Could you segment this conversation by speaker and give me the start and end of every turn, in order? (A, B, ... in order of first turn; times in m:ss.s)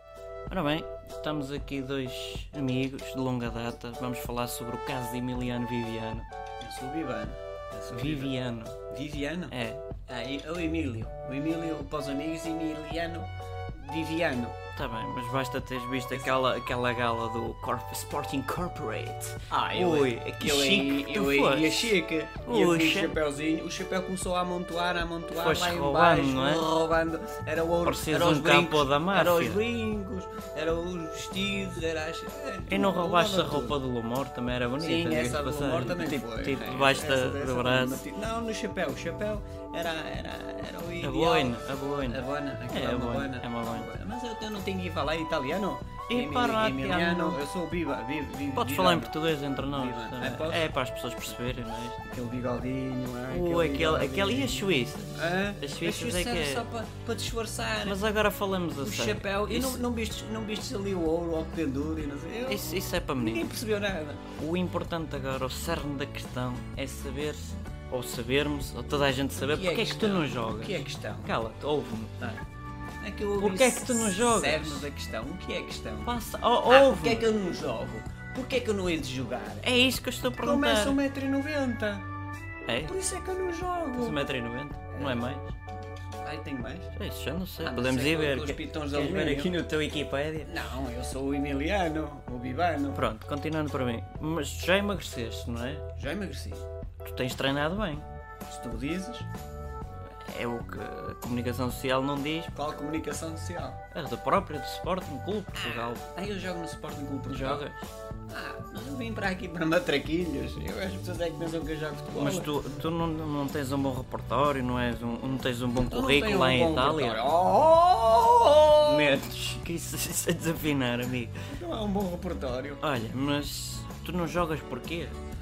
0:00.5-0:06.2 A
0:06.6-0:08.3 B
0:07.9-0:08.8 A
0:08.9-0:09.5 B
0:09.5-0:09.8 A
0:10.1-0:14.6 B
0:14.7-0:23.2 A
0:19.5-0:33.8 B
0:25.3-0:26.7 A
0:27.8-0:29.6 A
0:32.7-0:38.0 A
0:34.8-0:50.7 B
0:41.0-0:43.9 A
0:46.1-0:47.4 A
0:48.6-0:52.0 A
0:52.1-0:58.0 B
0:53.3-0:56.6 A
0:57.8-0:59.8 A
0:58.8-1:04.2 B
1:02.4-1:03.5 A
1:04.4-1:12.4 A
1:09.3-1:11.3 B
1:13.0-1:16.1 B
1:13.4-1:14.9 A
1:16.0-1:17.3 A
1:16.7-1:19.7 B
1:19.6-1:21.0 A
1:20.4-1:22.0 B
1:22.6-1:22.9 A
1:22.8-1:24.3 B
1:24.0-1:25.5 A
1:24.9-1:25.2 B
1:26.2-1:26.9 B
1:26.9-1:30.6 A
1:27.6-1:29.6 B
1:30.4-1:33.0 B
1:32.9-1:35.8 A
1:35.9-1:36.6 B
1:37.0-1:38.0 A
1:38.5-1:39.3 B
1:40.2-1:42.5 A
1:42.5-1:43.8 B
1:43.9-1:46.0 A
1:45.5-1:47.7 B
1:47.3-1:47.9 A
1:48.3-1:52.5 B
1:52.1-1:57.2 A
1:55.7-1:59.2 B
1:58.8-2:01.3 A
2:01.5-2:02.8 B
2:02.8-2:05.2 A